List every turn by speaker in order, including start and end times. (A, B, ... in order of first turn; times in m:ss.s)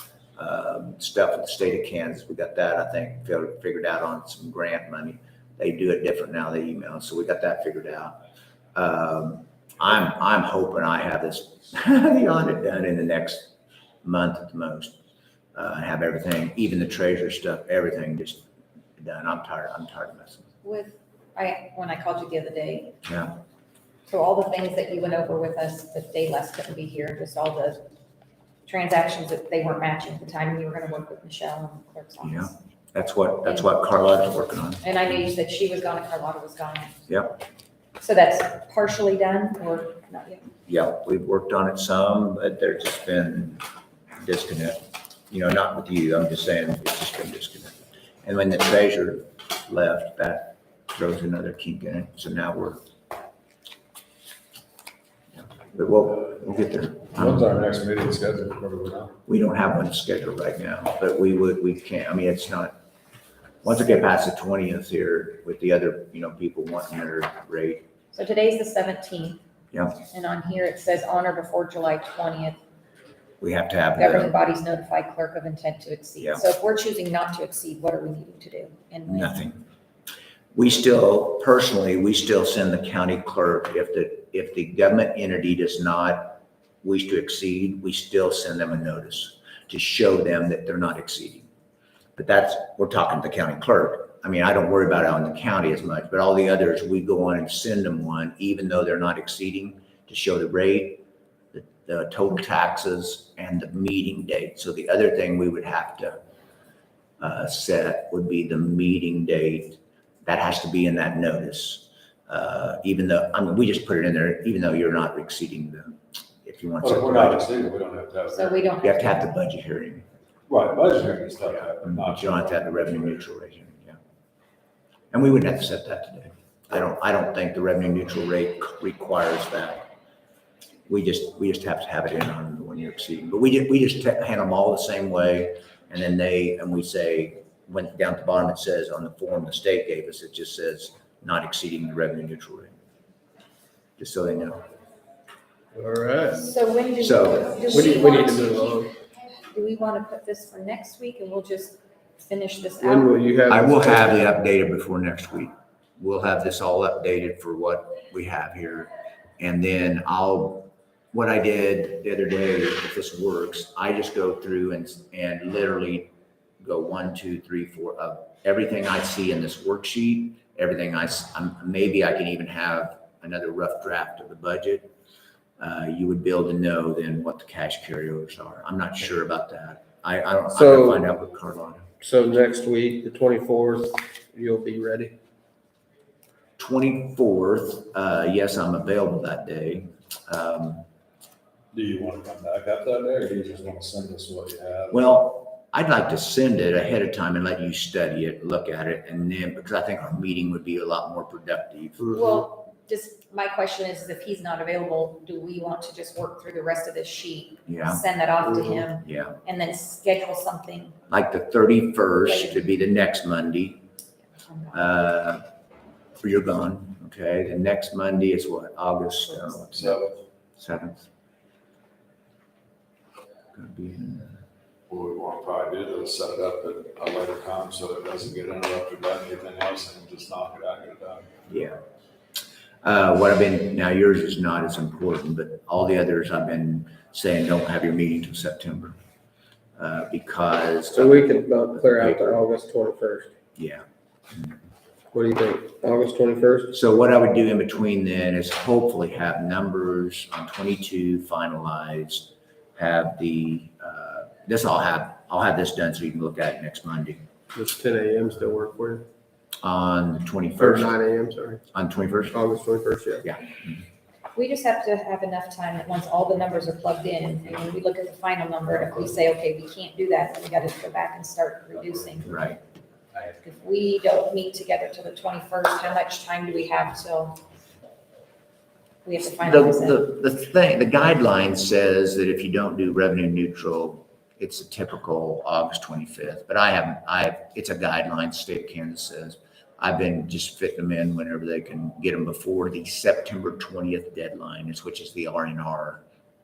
0:00.4-0:08.2 A
0:08.7-0:15.0 A
0:15.5-0:18.5 A
0:19.0-0:20.5 A
0:20.6-0:23.0 B
0:23.0-0:23.4 A
0:24.1-0:27.8 B
0:28.6-0:32.5 B
0:32.2-0:34.8 A
0:34.8-0:37.0 B
0:37.1-0:37.4 A
0:38.0-0:40.5 B
0:40.6-0:43.6 A
0:44.2-0:52.8 A
0:55.4-0:57.5 A
0:57.1-0:59.1 C
0:59.2-1:02.8 A
1:03.6-1:07.8 A
1:08.1-1:09.4 B
1:09.7-1:10.0 A
1:10.0-1:12.6 B
1:13.4-1:14.4 A
1:14.0-1:19.4 B
1:19.1-1:19.6 A
1:20.5-1:31.5 A
1:32.2-1:46.2 A
1:47.2-1:57.5 A
1:56.8-1:58.7 C
1:58.3-1:59.3 B
1:58.8-2:00.1 A
2:00.5-2:03.2 C
2:01.8-2:04.0 A
2:05.1-2:09.9 A
2:10.9-2:22.7 A
2:24.0-2:24.6 A
2:25.7-2:26.5 D
2:26.4-2:28.9 B
2:27.0-2:27.9 A
2:27.7-2:28.9 D
2:29.5-2:33.1 B
2:32.8-2:34.2 D
2:33.5-2:54.9 A
2:55.6-3:01.9 A
3:00.5-3:01.0 D
3:02.0-3:05.1 D
3:06.6-3:10.8 A
3:11.7-3:15.0 C
3:14.9-3:22.2 A
3:22.1-3:31.0 B
3:27.7-3:28.0 A
3:29.0-3:29.4 A
3:31.1-3:33.8 A
3:32.2-3:32.6 B
3:34.4-3:34.8 B
3:34.7-3:35.5 A
3:36.2-3:40.0 A
3:39.5-3:40.2 C
3:40.6-3:41.1 A
3:43.5-3:44.4 A
3:44.9-3:51.3 C
3:51.5-3:51.8 A
3:52.8-3:59.0 A
3:59.8-4:02.4 A
4:00.9-4:03.3 D
4:03.6-4:04.5 A
4:05.1-4:06.7 D
4:06.7-4:17.2 A
4:17.5-4:19.0 D
4:19.6-4:21.0 A
4:20.6-4:21.6 D
4:21.7-4:22.4 A
4:22.3-4:23.2 D
4:23.2-4:23.8 A
4:24.3-4:32.5 B
4:32.3-4:32.6 A
4:33.3-4:37.4 B
4:39.0-4:40.0 B
4:39.2-4:56.0 A